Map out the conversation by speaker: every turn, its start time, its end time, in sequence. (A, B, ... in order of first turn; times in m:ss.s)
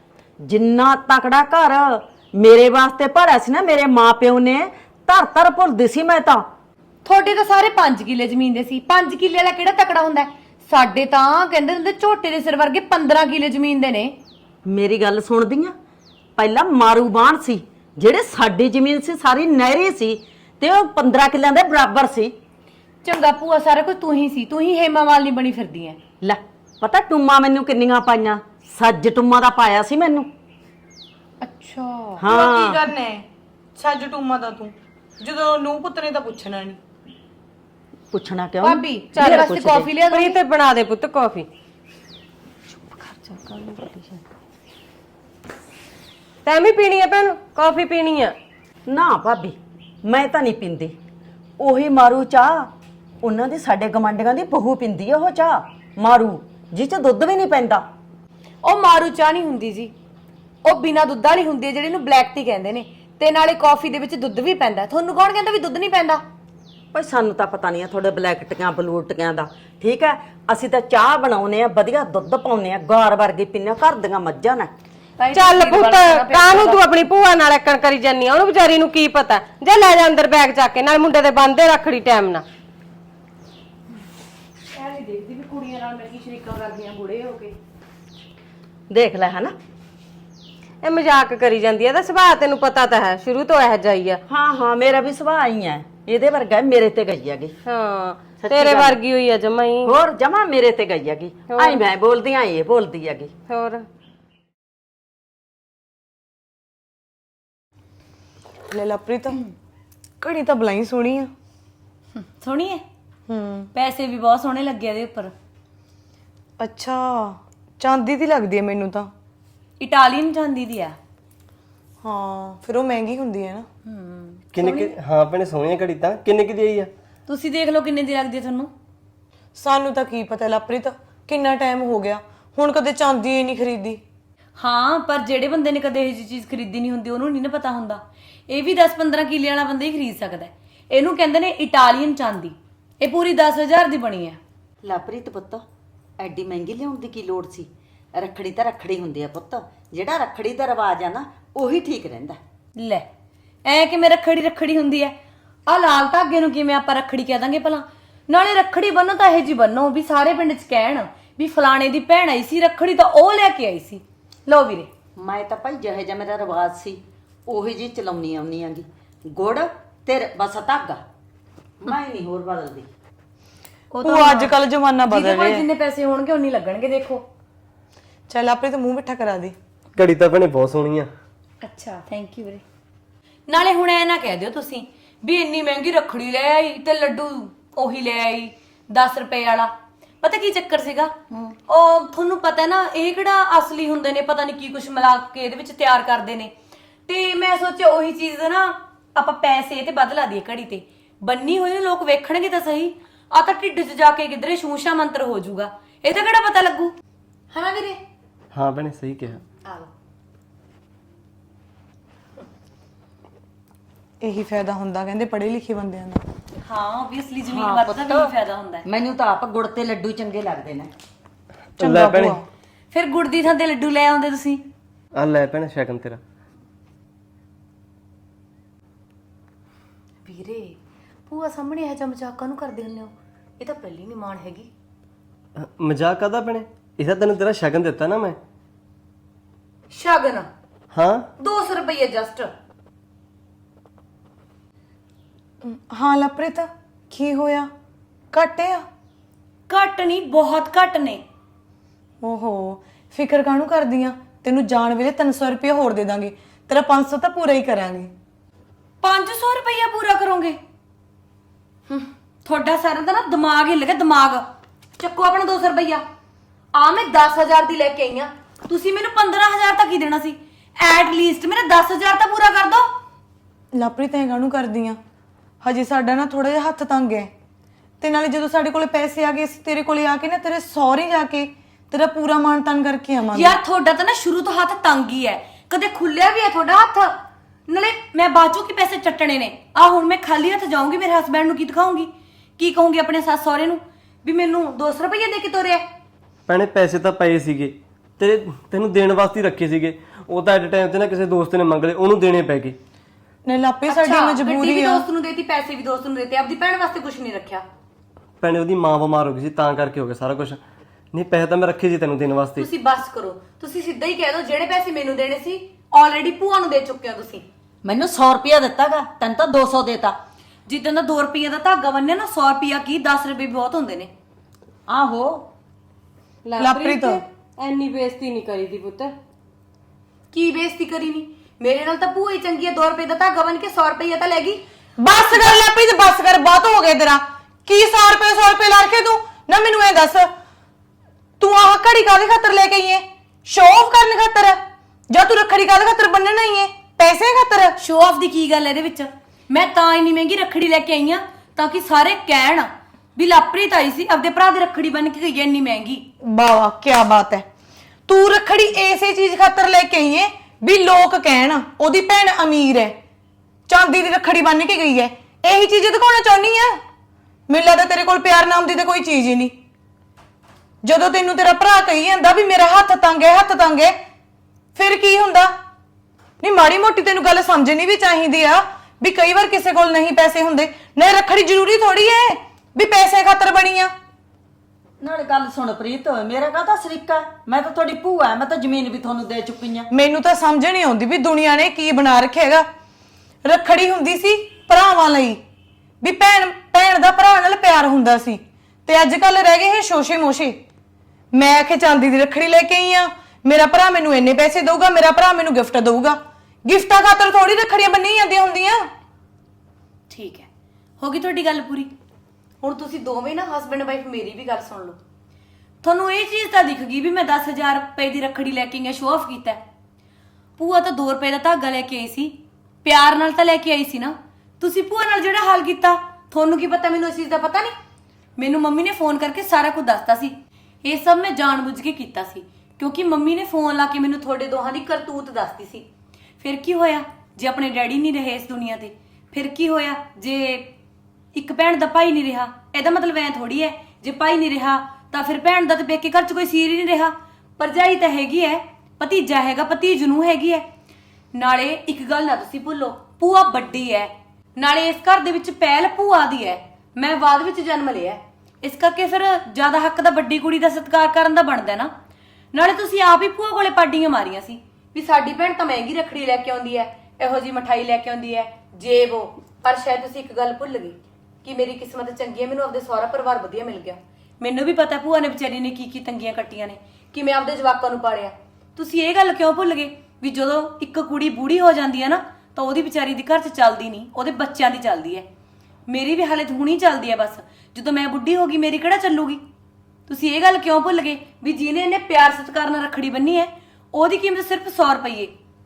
0:00.4-0:06.5 A
0:07.0-0:14.2 B
0:14.6-0:15.7 A
0:16.4-0:22.3 A
0:23.0-0:26.0 B
0:26.2-0:30.3 A
0:31.4-0:32.2 B
0:32.2-0:32.9 A
0:32.3-0:36.8 C
0:38.1-0:39.9 A
0:38.6-0:40.4 B
0:39.1-0:41.5 D
0:42.7-0:44.2 A
0:46.4-0:48.3 D
0:48.9-0:51.0 A
0:51.6-0:52.7 A
0:53.2-0:57.8 A
0:58.6-0:59.9 B
1:00.6-1:06.2 B
1:06.9-1:14.7 A
1:15.2-1:16.8 B
1:15.3-1:22.4 D
1:24.7-1:27.5 B
1:28.9-1:29.5 A
1:30.8-1:34.2 D
1:34.3-1:37.5 A
1:37.6-1:39.9 D
1:38.4-1:39.0 A
1:39.8-1:43.3 A
1:41.5-1:41.8 D
1:43.5-1:43.8 D
1:48.7-1:49.4 C
1:50.2-1:51.3 C
1:52.2-1:52.8 B
1:53.3-1:53.7 C
1:53.7-1:55.3 B
1:56.6-1:59.1 C
1:59.8-2:01.0 B
2:02.0-2:03.7 C
2:03.8-2:04.9 B
2:04.5-2:06.9 E
2:07.3-2:08.7 B
2:09.5-2:14.0 C
2:14.6-2:24.4 B
2:24.8-2:25.6 A
2:26.2-2:32.4 A
2:32.8-2:33.1 B
2:33.6-2:35.2 B
2:35.7-2:44.9 B
2:45.2-2:51.0 A
2:51.8-2:52.9 A
2:53.9-2:54.5 B
2:54.0-2:55.6 C
2:55.1-2:57.2 B
2:58.3-2:59.5 C
3:00.0-3:01.1 E
3:01.6-3:02.6 B
3:03.5-3:09.7 B
3:10.2-3:11.2 B
3:11.7-3:16.5 B
3:17.1-3:26.9 B
3:27.5-3:28.0 B
3:28.5-3:29.4 E
3:29.6-3:29.9 B
3:34.2-3:36.2 C
3:36.6-3:38.8 B
3:37.5-3:38.3 A
3:38.8-3:40.9 A
3:41.8-3:42.4 E
3:41.8-3:42.4 C
3:42.9-3:44.7 B
3:45.1-3:46.2 E
3:50.2-3:50.8 B
3:51.3-3:54.7 B
3:55.6-3:58.4 E
3:59.9-4:00.5 B
4:00.9-4:01.3 E
4:01.4-4:02.5 B
4:05.6-4:07.7 C
4:08.3-4:08.8 C
4:09.7-4:11.2 B
4:12.2-4:18.1 C
4:19.0-4:20.6 B
4:21.9-4:24.4 B
4:25.0-4:26.0 B
4:26.7-4:32.9 B
4:33.7-4:35.0 C
4:35.6-4:37.3 C
4:38.0-4:43.6 C
4:43.3-4:55.8 B
4:56.5-5:02.8 E
5:03.4-5:05.0 C
5:03.9-5:07.6 B
5:08.4-5:10.6 E
5:11.1-5:12.7 E
5:12.6-5:17.4 B
5:17.8-5:20.2 A
5:20.7-5:24.1 B
5:24.9-5:25.5 A
5:26.4-5:29.1 D
5:26.6-5:27.2 C
5:30.3-5:34.6 B
5:35.0-5:40.3 C
5:41.4-5:44.6 C
5:45.1-5:47.8 C
5:47.8-5:56.0 B
5:56.2-5:57.4 C
5:58.1-6:03.0 C
6:03.7-6:06.8 C
6:07.5-6:09.5 C
6:10.8-6:13.9 C
6:14.7-6:15.5 C
6:16.4-6:23.9 C
6:25.0-6:29.9 A
6:29.9-6:32.6 C
6:33.4-6:35.4 C
6:36.0-6:40.6 C
6:41.3-6:48.9 C
6:50.1-6:50.5 B
6:51.0-6:51.9 B
6:52.6-6:55.0 B
6:55.8-6:59.6 B
7:00.6-7:07.7 B
7:08.4-7:15.9 B
7:16.4-7:20.7 B
7:21.3-7:30.6 B
7:31.3-7:41.9 B
7:42.5-8:05.3 B
8:05.9-8:09.4 B
8:10.1-8:15.3 B